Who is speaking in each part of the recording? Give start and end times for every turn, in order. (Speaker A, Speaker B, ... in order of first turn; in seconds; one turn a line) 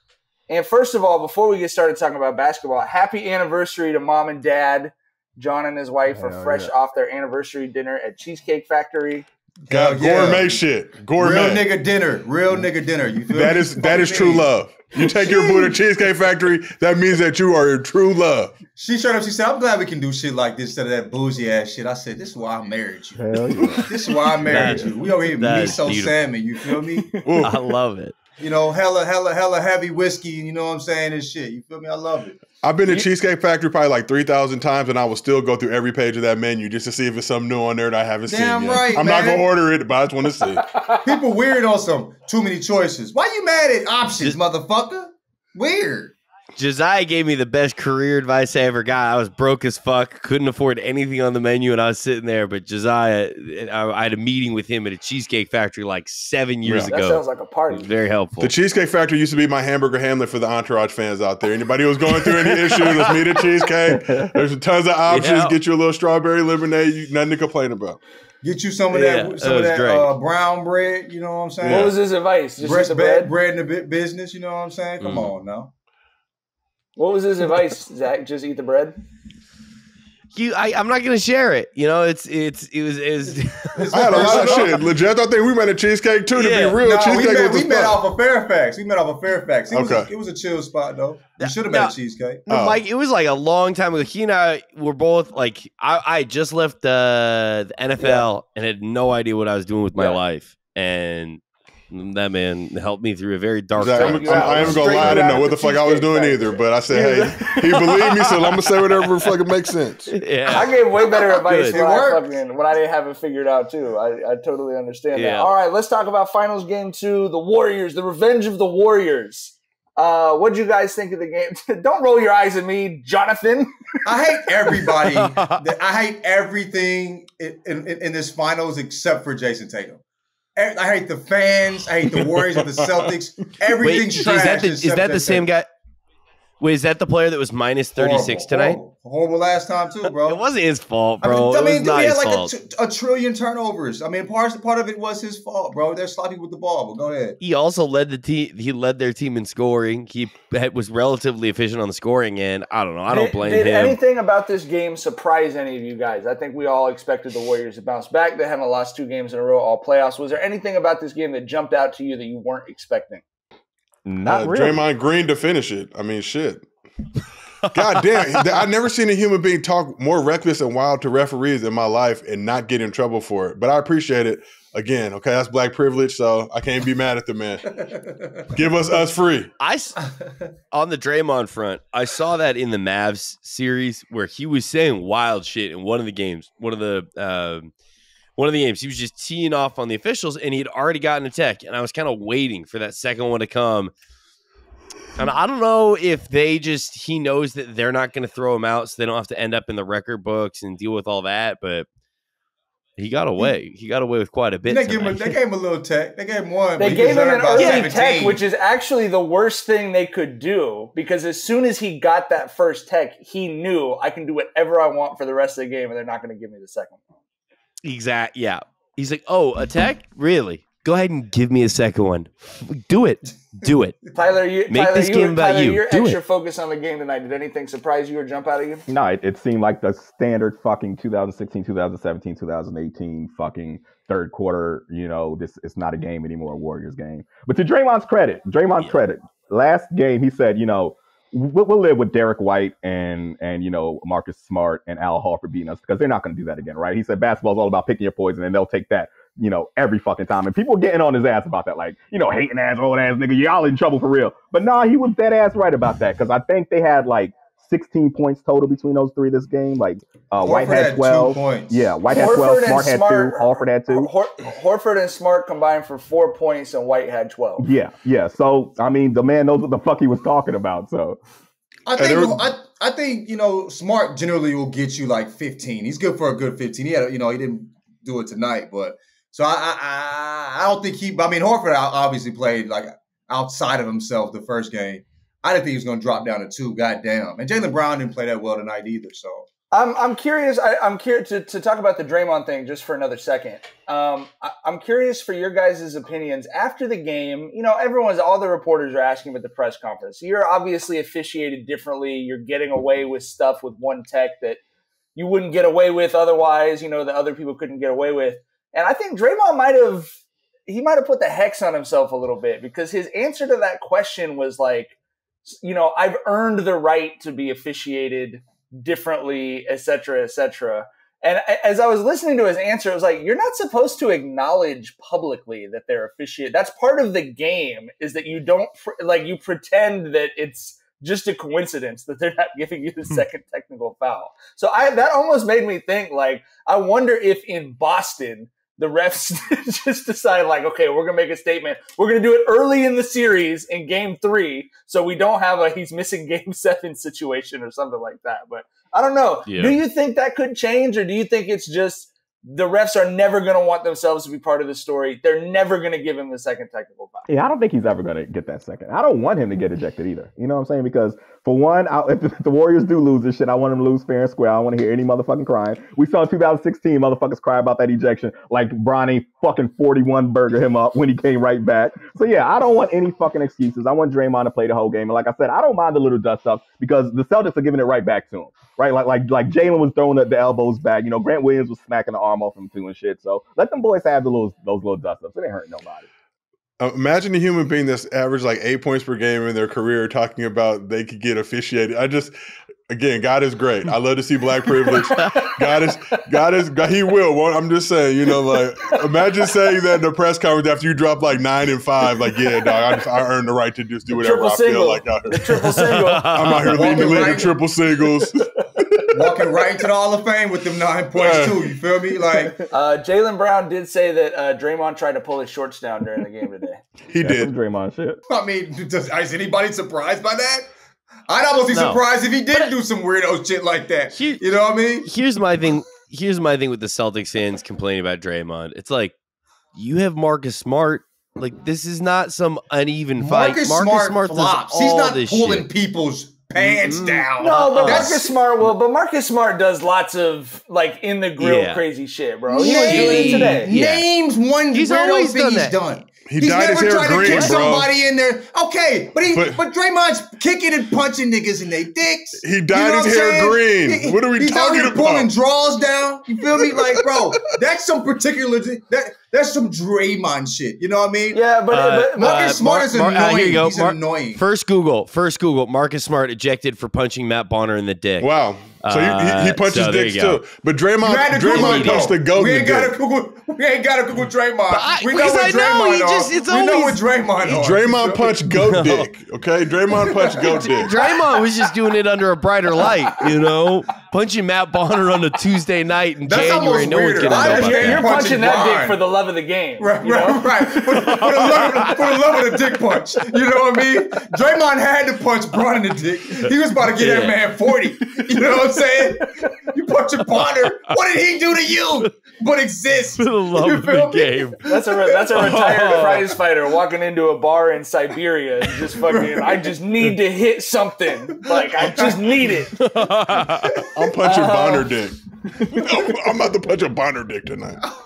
Speaker A: 0.5-9.3
Speaker B: 6.1-6.7
Speaker C: 9.7-10.6
Speaker D: 9.7-11.7
Speaker C: 11.2-15.8
Speaker D: 13.3-18.5
Speaker C: 18.8-27.2
Speaker B: 23.1-24.9
Speaker E: 24.4-26.2
Speaker A: 26.9-27.5
Speaker D: 27.2-27.6
Speaker E: 27.4-28.2
Speaker C: 28.4-32.4
Speaker D: 32.6-40.7
Speaker C: 38.3-39.5
Speaker A: 40.6-41.0
Speaker C: 41.0-46.1
Speaker E: 46.6-58.5
Speaker D: 56.6-56.9
Speaker A: 56.9-57.9
Speaker D: 58.4-68.0
Speaker E: 62.2-63.4
Speaker B: 63.9-64.3
Speaker E: 65.1-65.5
Speaker C: 68.4-72.0
Speaker E: 68.9-70.1
Speaker A: 71.6-73.3
Speaker D: 71.6-71.9
Speaker C: 72.6-75.7
Speaker E: 75.0-75.3
Speaker A: 77.0-79.0
Speaker E: 80.3-84.7
Speaker C: 83.3-84.9
Speaker D: 83.9-88.0
Speaker E: 86.3-86.8
Speaker C: 86.8-92.5
Speaker D: 89.7-90.1
Speaker E: 91.4-92.0
Speaker E: 92.5-105.3
Speaker D: 92.5-92.8
Speaker A: 98.0-98.2
Speaker D: 103.8-110.2
Speaker A: 103.9-107.9
Speaker E: 107.8-109.3
Speaker E: 110.1-111.8
Speaker A: 110.5-124.8
Speaker C: 111.5-112.3
Speaker E: 115.2-115.5
Speaker C: 124.0-130.0
Speaker E: 125.0-125.5
Speaker C: 130.6-135.5
Speaker D: 132.1-133.1
Speaker E: 133.8-135.7
Speaker E: 136.6-138.8
Speaker C: 138.0-140.4
Speaker E: 140.2-142.5
Speaker C: 141.2-147.4
Speaker E: 147.4-154.0
Speaker A: 153.1-163.2
Speaker B: 164.1-164.8
Speaker D: 164.3-166.7
Speaker D: 167.7-177.6
Speaker E: 167.8-168.5
Speaker C: 177.7-178.6
Speaker D: 178.5-179.5
Speaker E: 179.6-180.0
Speaker E: 180.7-187.7
Speaker E: 188.4-193.9
Speaker E: 195.2-201.9
Speaker E: 203.0-205.4
Speaker C: 204.7-208.4
Speaker A: 206.8-217.0
Speaker E: 207.6-207.9
Speaker E: 217.8-224.0
Speaker A: 224.2-228.8
Speaker E: 224.7-226.2
Speaker B: 228.9-264.1
Speaker C: 260.4-261.9
Speaker A: 262.1-267.7
Speaker B: 267.6-271.2
Speaker C: 271.9-289.5
Speaker D: 272.0-272.4
Speaker A: 289.7-304.6
Speaker A: 305.1-314.9
Speaker A: 315.5-357.3
Speaker E: 349.5-349.8
Speaker B: 357.3-386.1
Speaker D: 386.8-392.3
Speaker D: 392.9-405.6
Speaker A: 394.9-396.2
Speaker A: 398.6-399.1
Speaker A: 404.1-406.6
Speaker E: 405.7-406.8
Speaker D: 406.3-409.3
Speaker C: 406.6-407.6
Speaker C: 409.1-412.6
Speaker D: 411.1-411.8
Speaker A: 412.7-416.8
Speaker D: 417.1-417.5
Speaker B: 417.2-418.2
Speaker C: 418.3-420.7
Speaker C: 421.3-425.1
Speaker E: 421.7-422.0
Speaker E: 424.1-424.4
Speaker E: 425.1-429.1
Speaker E: 429.8-435.7
Speaker C: 433.2-438.2
Speaker E: 436.6-438.2
Speaker A: 437.4-443.7
Speaker E: 441.4-441.8
Speaker C: 442.5-461.4
Speaker E: 442.6-444.1
Speaker E: 444.7-445.8
Speaker D: 446.3-447.9
Speaker E: 447.2-447.6
Speaker D: 449.3-449.6
Speaker D: 452.4-455.3
Speaker D: 456.7-457.6
Speaker A: 461.3-462.6
Speaker E: 461.7-468.3
Speaker C: 462.2-464.4
Speaker D: 468.2-473.0
Speaker E: 468.8-470.4
Speaker C: 471.0-478.4
Speaker E: 471.5-472.1
Speaker E: 474.7-477.0
Speaker D: 477.4-480.9
Speaker E: 478.5-479.1
Speaker C: 480.2-480.6
Speaker E: 480.3-488.1
Speaker C: 486.2-489.0
Speaker A: 487.2-491.3
Speaker C: 489.8-505.4
Speaker E: 491.2-492.2
Speaker E: 496.3-497.4
Speaker A: 498.0-499.5
Speaker E: 503.2-504.6
Speaker A: 504.6-512.8
Speaker E: 505.4-506.4
Speaker C: 509.0-509.8
Speaker C: 511.3-512.5
Speaker E: 512.7-513.9
Speaker C: 513.5-513.9
Speaker D: 514.0-517.8
Speaker A: 514.2-514.9
Speaker A: 515.5-516.1